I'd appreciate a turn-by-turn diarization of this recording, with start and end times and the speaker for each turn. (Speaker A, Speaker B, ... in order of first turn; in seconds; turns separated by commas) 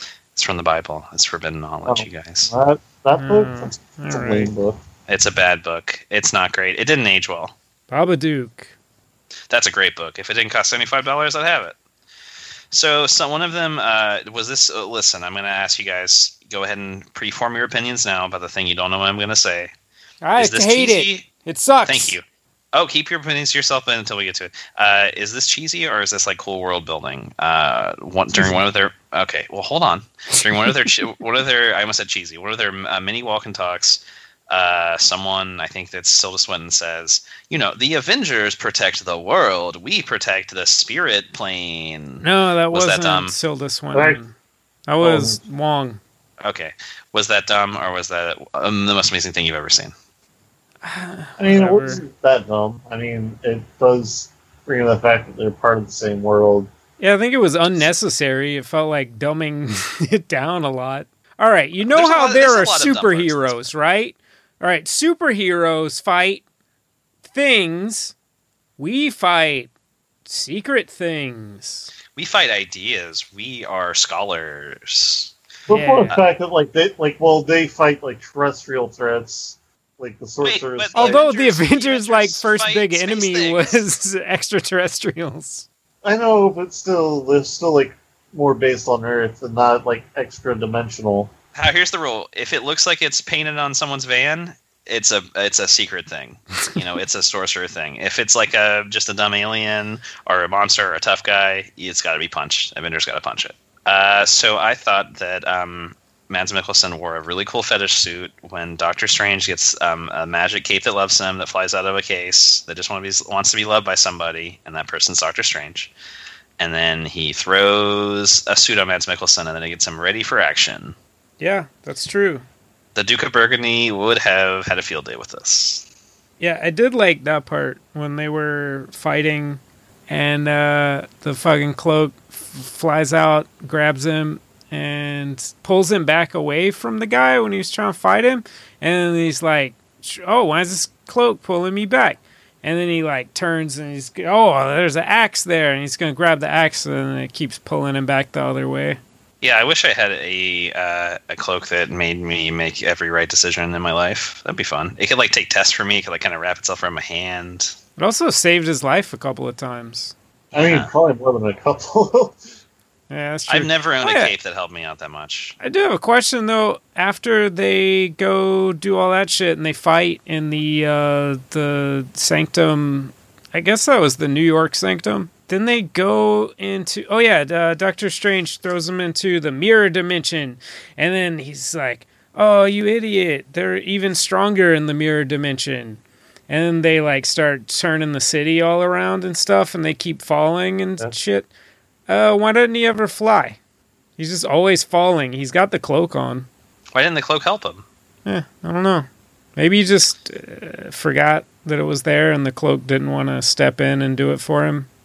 Speaker A: 0.3-2.5, Speaker B: 1.9-4.8, Speaker C: 3.1-4.5, Speaker A: 5.1-7.5, Speaker C: 7.9-8.7, Speaker A: 9.5-11.7, Speaker A: 12.7-19.7, Speaker C: 20.2-22.2, Speaker A: 20.4-21.3, Speaker A: 21.8-22.2, Speaker A: 22.7-43.3, Speaker C: 30.4-30.9, Speaker C: 42.2-44.3, Speaker B: 43.9-44.2, Speaker C: 44.9-46.0, Speaker B: 45.0-45.4, Speaker A: 46.4-49.9, Speaker C: 50.8-52.0, Speaker B: 51.4-56.7, Speaker C: 57.0-66.4, Speaker A: 61.8-63.7, Speaker C: 67.3-68.1, Speaker C: 68.8-69.7, Speaker C: 70.2-71.9, Speaker A: 72.1-75.3, Speaker B: 75.7-81.2, Speaker C: 75.7-76.2, Speaker A: 80.4-83.8, Speaker C: 80.9-85.7, Speaker B: 86.0-91.3, Speaker A: 91.5-115.9, Speaker A: 116.6-120.9, Speaker C: 121.4-122.4, Speaker A: 122.9-125.8, Speaker C: 126.4-149.0, Speaker A: 149.4-157.7, Speaker C: 158.0-160.1, Speaker B: 160.5-162.4, Speaker A: 160.5-160.9, Speaker C: 163.1-164.3, Speaker A: 163.5-165.6, Speaker C: 165.6-191.5, Speaker C: 192.1-193.6, Speaker C: 194.2-196.5, Speaker A: 196.9-197.8, Speaker C: 198.2-204.9